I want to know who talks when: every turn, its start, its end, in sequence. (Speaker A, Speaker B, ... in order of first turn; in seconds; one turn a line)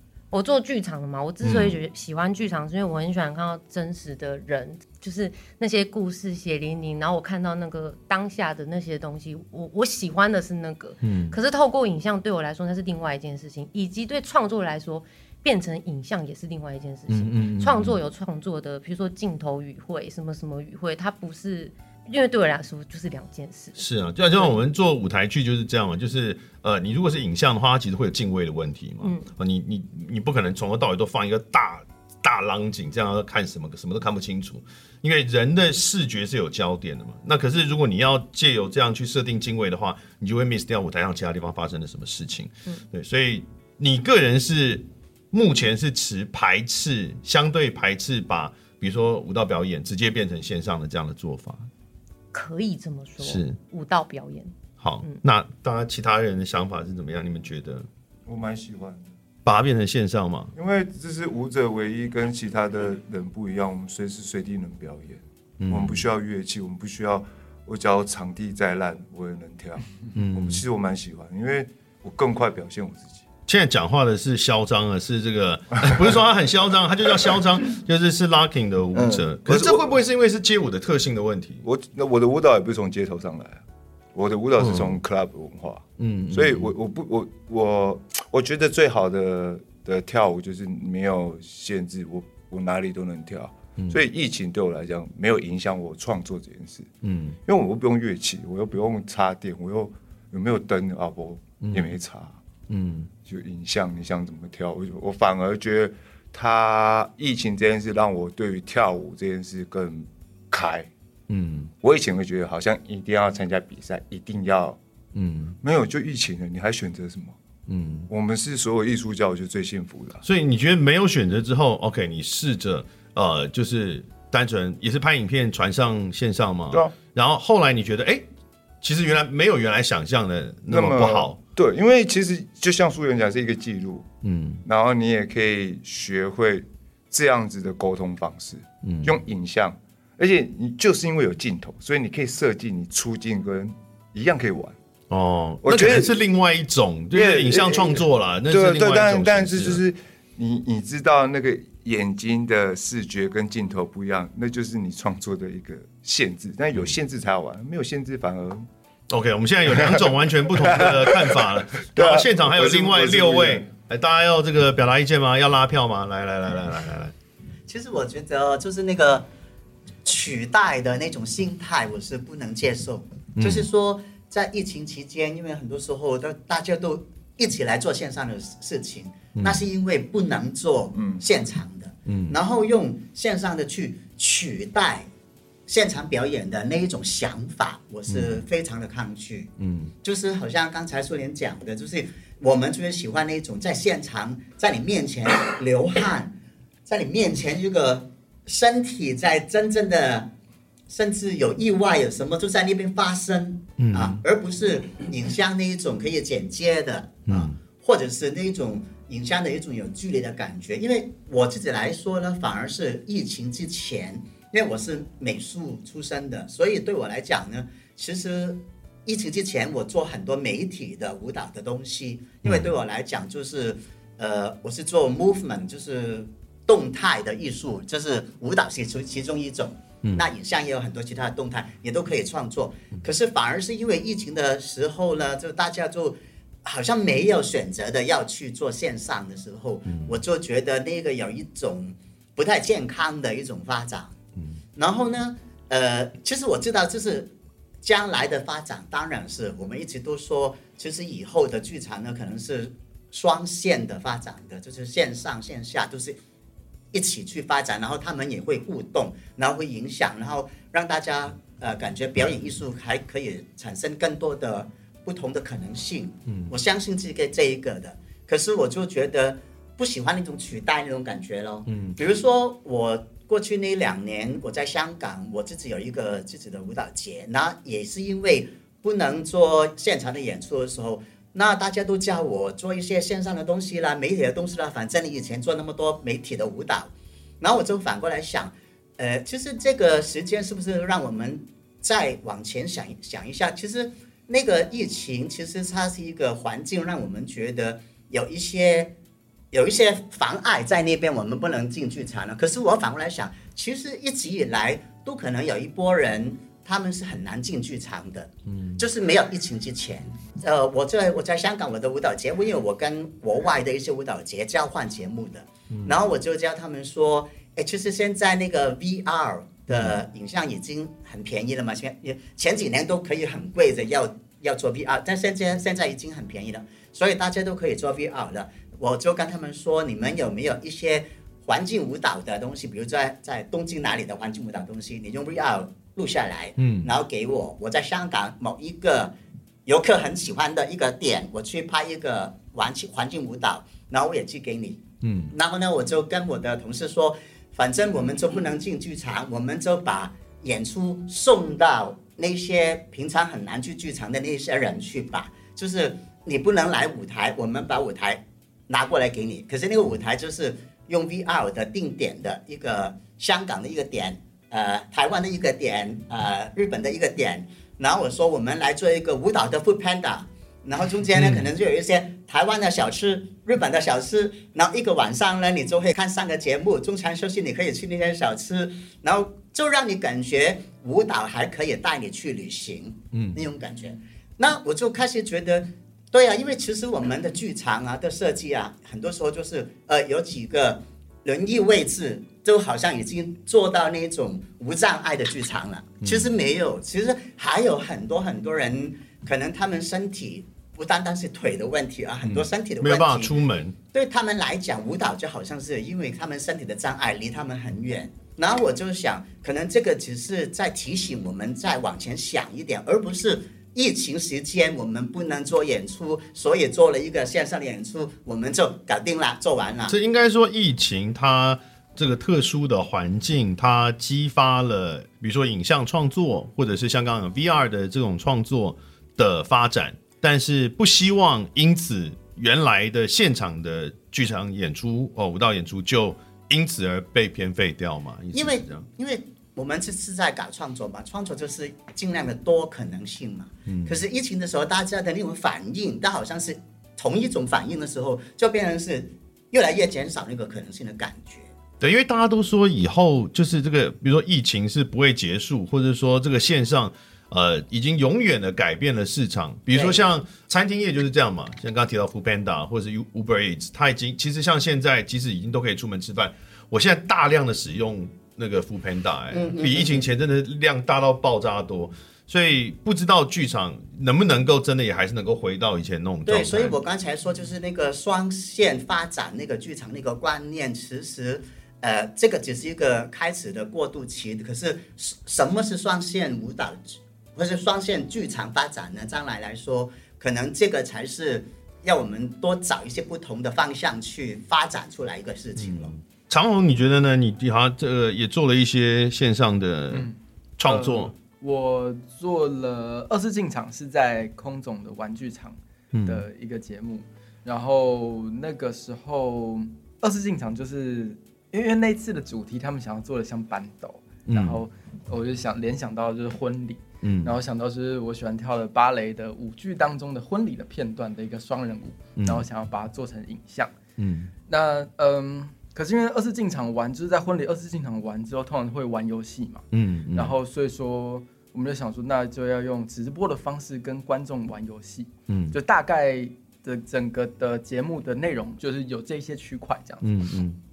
Speaker A: 0.3-24.5
Speaker B: 1.4-1.8
Speaker B: 11.0-11.4
Speaker B: 17.1-17.9
Speaker B: 23.8-51.7
Speaker A: 29.0-29.3
Speaker A: 52.3-55.2
Speaker B: 53.2-53.6
Speaker B: 54.8-57.9
Speaker C: 58.2-59.1
Speaker B: 59.4-60.5
Speaker C: 60.5-73.2
Speaker B: 65.6-66.0
Speaker B: 70.1-70.6
Speaker B: 73.5-81.6
Speaker C: 78.9-79.9
Speaker C: 81.6-83.6
Speaker C: 84.1-96.9
Speaker B: 84.6-85.0
Speaker B: 86.0-86.7
Speaker B: 97.0-97.4
Speaker C: 97.5-102.4
Speaker B: 101.6-101.9
Speaker B: 102.7-103.1
Speaker C: 103.2-110.9
Speaker B: 111.3-111.7
Speaker C: 111.8-114.8
Speaker B: 115.1-115.5
Speaker C: 115.6-117.4
Speaker B: 117.7-118.1
Speaker C: 118.1-120.2
Speaker B: 120.2-128.2
Speaker B: 128.8-131.4
Speaker C: 130.7-134.1
Speaker B: 134.2-134.6
Speaker C: 134.6-144.8
Speaker B: 138.8-139.2
Speaker B: 145.1-149.8
Speaker C: 145.6-146.2
Speaker C: 147.1-158.7
Speaker B: 159.1-167.1
Speaker C: 159.7-163.7
Speaker D: 167.7-169.3
Speaker D: 170.0-185.1
Speaker B: 173.4-173.7
Speaker B: 179.3-179.6
Speaker C: 180.9-181.2
Speaker B: 182.1-182.4
Speaker D: 185.7-200.3
Speaker B: 188.1-188.4
Speaker B: 189.6-189.9
Speaker D: 200.9-244.2
Speaker B: 203.8-204.2
Speaker B: 207.3-207.6
Speaker B: 222.4-222.7
Speaker B: 239.9-240.2
Speaker D: 244.8-256.2
Speaker D: 256.9-298.9
Speaker B: 266.3-266.6
Speaker B: 271.7-272.0
Speaker D: 299.5-403.3
Speaker B: 308.5-308.8
Speaker B: 315.7-316.0
Speaker B: 336.6-336.9
Speaker B: 345.0-345.3
Speaker B: 371.1-371.5
Speaker B: 383.1-383.4
Speaker B: 396.0-396.3
Speaker B: 402.2-403.8
Speaker D: 403.9-419.9
Speaker B: 419.9-438.9
Speaker D: 438.3-451.5
Speaker B: 443.7-444.0
Speaker B: 451.8-476.7
Speaker D: 459.7-460.0
Speaker D: 469.3-470.0
Speaker D: 476.2-495.9
Speaker B: 495.6-501.1
Speaker E: 499.9-523.7
Speaker B: 505.9-506.2
Speaker B: 514.3-514.6
Speaker B: 517.0-517.4
Speaker B: 522.1-522.4
Speaker B: 524.0-524.3
Speaker E: 524.5-540.4
Speaker B: 529.7-530.3
Speaker B: 535.3-535.5
Speaker B: 540.0-540.6